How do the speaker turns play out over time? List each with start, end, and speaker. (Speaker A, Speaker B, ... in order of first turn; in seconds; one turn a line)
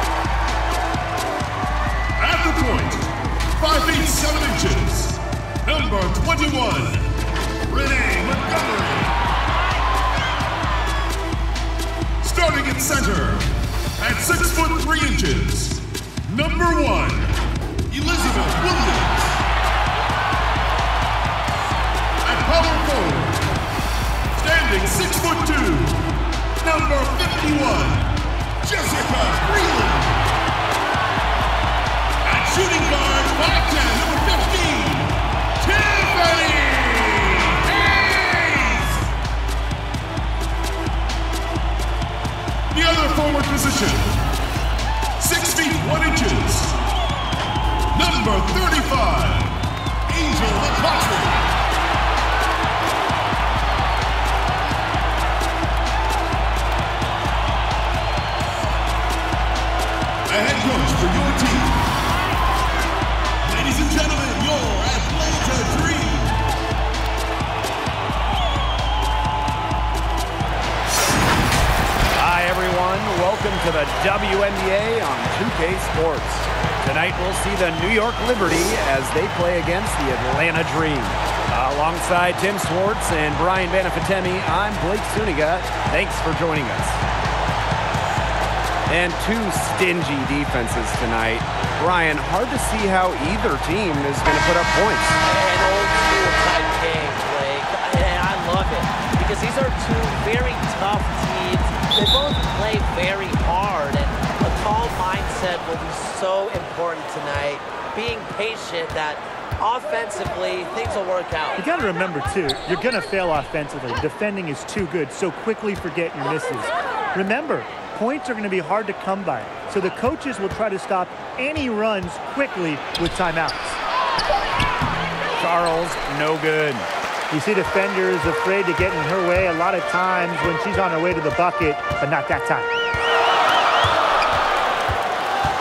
Speaker A: 2.2-7.1
Speaker A: 7.7-9.2
Speaker A: 12.2-17.3
Speaker A: 17.9-19.4
Speaker A: 22.2-23.4
Speaker A: 24.3-30.2
Speaker A: 32.2-39.1
Speaker A: 42.7-44.2
Speaker A: 45.2-46.8
Speaker A: 47.9-51.5
Speaker A: 60.3-61.9
Speaker A: 63.4-66.3
Speaker B: 72.1-87.0
Speaker B: 88.9-95.2
Speaker C: 95.2-111.6
Speaker D: 111.6-123.8
Speaker B: 125.4-126.9
Speaker D: 127.3-132.7